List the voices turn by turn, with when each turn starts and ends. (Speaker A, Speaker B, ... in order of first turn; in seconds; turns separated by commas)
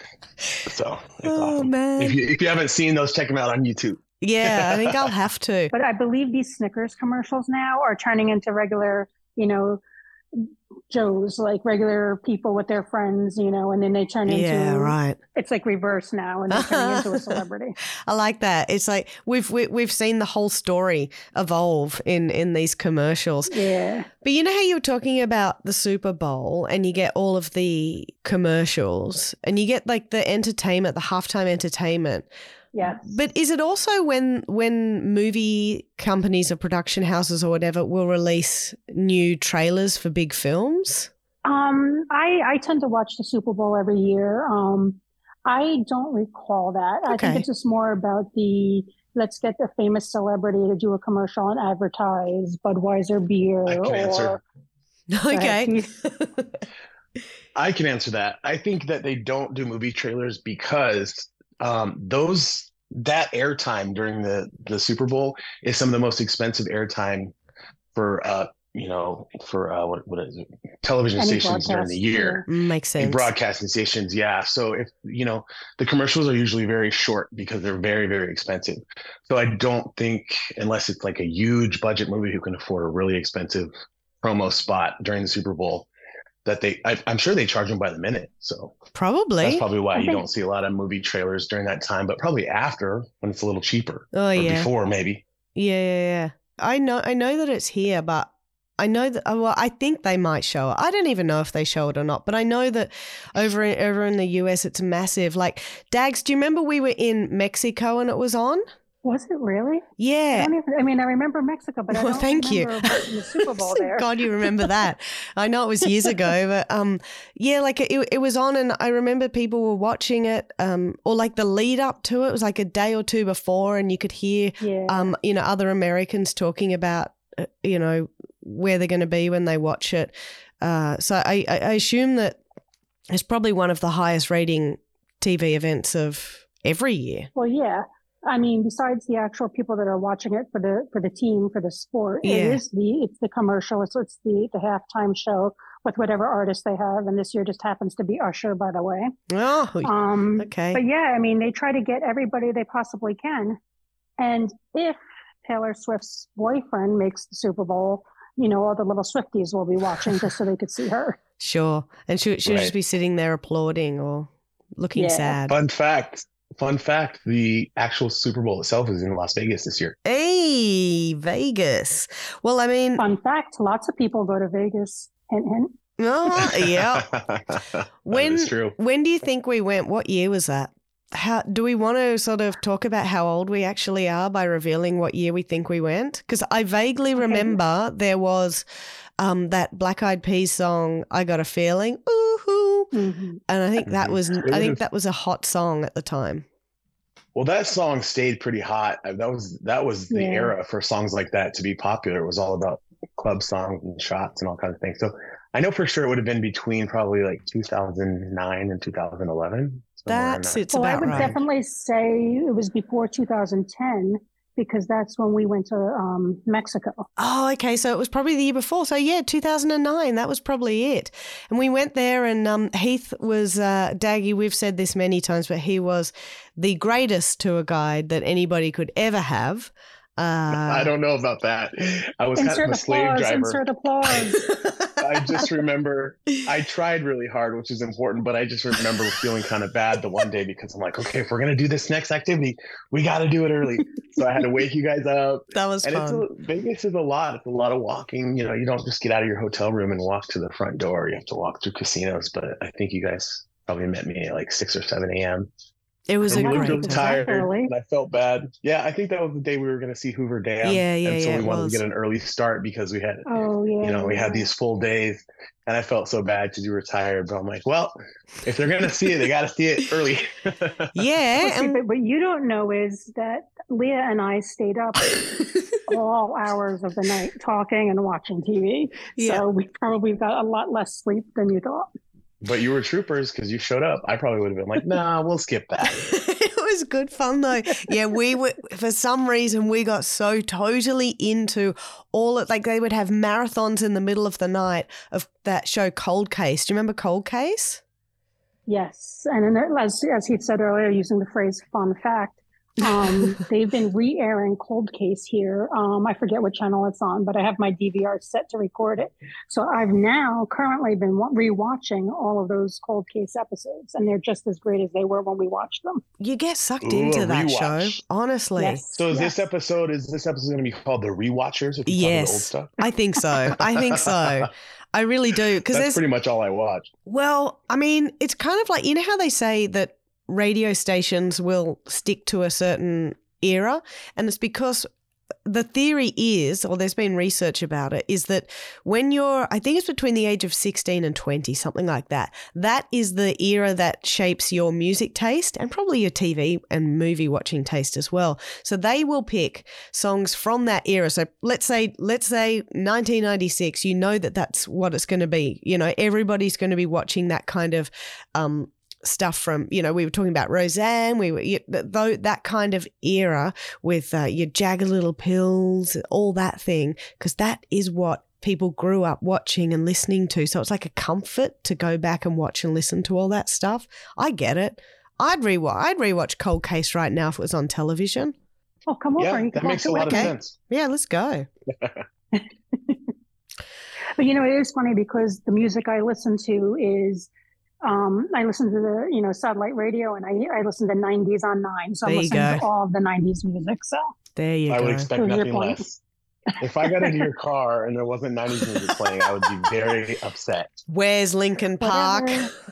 Speaker A: 0.7-5.1, Speaker B: 1.2-2.2, Speaker B: 4.2-5.7, Speaker C: 5.7-9.8, Speaker C: 10.3-17.8, Speaker B: 14.3-15.2, Speaker B: 16.5-17.4, Speaker B: 18.1-23.5, Speaker C: 23.5-24.1, Speaker B: 24.2-32.3, Speaker C: 32.7-33.1, Speaker B: 32.8-41.1, Speaker C: 41.5-54.4, Speaker B: 47.1-47.5, Speaker A: 53.7-54.4, Speaker B: 55.1-56.6, Speaker C: 55.3-55.9, Speaker A: 57.6-67.3, Speaker A: 68.0-72.5, Speaker C: 71.2-72.5, Speaker B: 72.5-73.3, Speaker A: 73.0-83.7, Speaker A: 84.2-85.9, Speaker A: 86.5-88.8, Speaker B: 89.0-89.6, Speaker A: 89.4-95.2, Speaker C: 89.9-90.2, Speaker B: 94.1-94.7, Speaker B: 95.6-108.6, Speaker C: 109.0-114.1, Speaker B: 110.0-110.5, Speaker B: 111.9-132.4, Speaker C: 124.6-125.1, Speaker B: 133.1-137.3, Speaker C: 137.4-149.1, Speaker B: 142.2-142.6, Speaker B: 149.3-150.8, Speaker C: 149.8-153.6, Speaker C: 154.2-161.2, Speaker B: 161.4-165.6, Speaker A: 162.4-162.7, Speaker C: 164.9-165.3, Speaker A: 165.5-170.0, Speaker B: 170.1-173.0, Speaker C: 173.0-175.7, Speaker B: 176.0-177.1, Speaker A: 176.4-178.8, Speaker B: 178.1-188.7, Speaker C: 187.2-187.6, Speaker B: 189.2-192.9, Speaker C: 192.9-193.4, Speaker B: 193.5-196.4, Speaker A: 193.8-194.8, Speaker A: 197.3-211.4, Speaker C: 200.1-200.5, Speaker B: 210.1-211.3, Speaker C: 210.7-217.1, Speaker B: 217.2-230.9, Speaker A: 230.5-233.6, Speaker C: 232.4-234.5, Speaker B: 234.6-234.9, Speaker A: 235.0-255.5, Speaker B: 245.5-246.3, Speaker B: 256.1-257.1, Speaker C: 256.3-257.7, Speaker A: 256.3-263.2, Speaker B: 260.6-261.8, Speaker C: 263.3-264.4, Speaker A: 263.8-270.9, Speaker B: 270.9-271.8, Speaker C: 271.4-275.2, Speaker C: 275.9-281.9, Speaker B: 279.2-279.4, Speaker A: 282.4-286.1, Speaker B: 285.9-297.8, Speaker C: 298.7-316.0, Speaker B: 303.1-303.4, Speaker B: 316.2-318.8, Speaker A: 316.8-318.0, Speaker C: 318.6-319.4, Speaker A: 318.9-322.8, Speaker B: 321.9-326.0, Speaker A: 323.5-324.5, Speaker A: 325.7-326.9, Speaker B: 327.1-334.9, Speaker B: 335.4-378.4, Speaker C: 378.9-380.3, Speaker A: 379.2-380.6, Speaker B: 380.1-381.5, Speaker C: 382.3-383.0, Speaker C: 384.2-387.3, Speaker C: 387.8-394.1, Speaker B: 392.0-392.7, Speaker B: 394.4-395.1, Speaker A: 394.7-396.0, Speaker C: 395.2-395.8, Speaker A: 396.6-400.8, Speaker C: 396.8-397.2, Speaker B: 400.9-402.4, Speaker C: 401.8-402.5